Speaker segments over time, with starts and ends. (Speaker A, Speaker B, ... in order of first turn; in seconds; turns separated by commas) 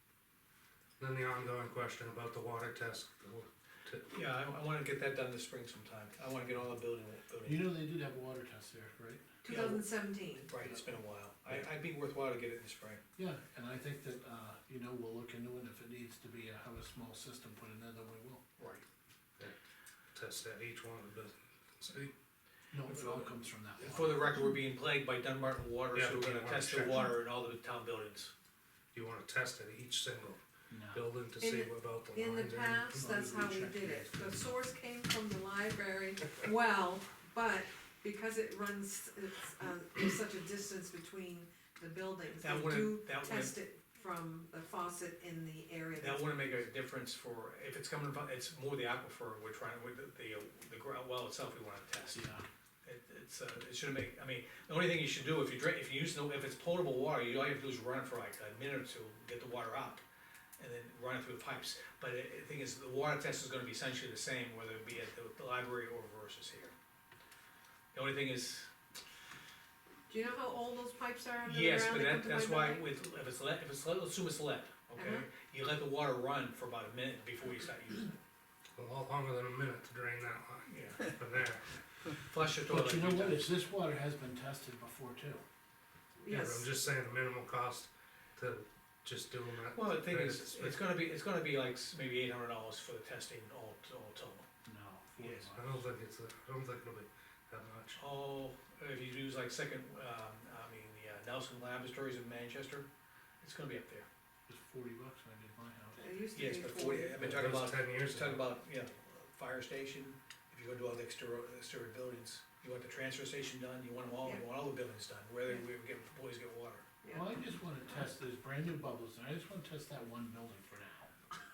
Speaker A: 1.0-4.1, Speaker B: 4.1-7.7, Speaker C: 7.4-9.2, Speaker D: 9.4-10.5, Speaker B: 9.5-13.0, Speaker C: 13.2-18.4, Speaker B: 18.6-18.8, Speaker A: 20.1-22.1, Speaker C: 22.7-24.3, Speaker B: 22.9-23.3, Speaker B: 23.8-28.3, Speaker A: 25.9-27.1, Speaker A: 28.9-30.4, Speaker C: 30.7-31.1, Speaker A: 30.9-33.0, Speaker D: 31.4-46.6, Speaker C: 32.9-34.4, Speaker B: 42.4-43.5, Speaker B: 46.0-52.3, Speaker C: 52.1-52.4, Speaker B: 52.8-60.0, Speaker B: 60.6-66.7, Speaker B: 67.9-68.7, Speaker D: 70.1-72.8, Speaker B: 71.4-78.2, Speaker D: 75.0-75.2, Speaker A: 78.7-81.7, Speaker B: 80.7-81.1, Speaker B: 82.2-83.5, Speaker C: 82.7-85.4, Speaker D: 86.2-86.7, Speaker A: 86.3-90.8, Speaker B: 89.7-94.5, Speaker C: 94.6-95.8, Speaker A: 95.2-98.0, Speaker B: 98.0-102.9, Speaker B: 103.4-104.1, Speaker C: 104.5-106.1, Speaker D: 106.0-107.2, Speaker B: 106.3-116.9, Speaker A: 107.2-108.4, Speaker C: 117.1-121.1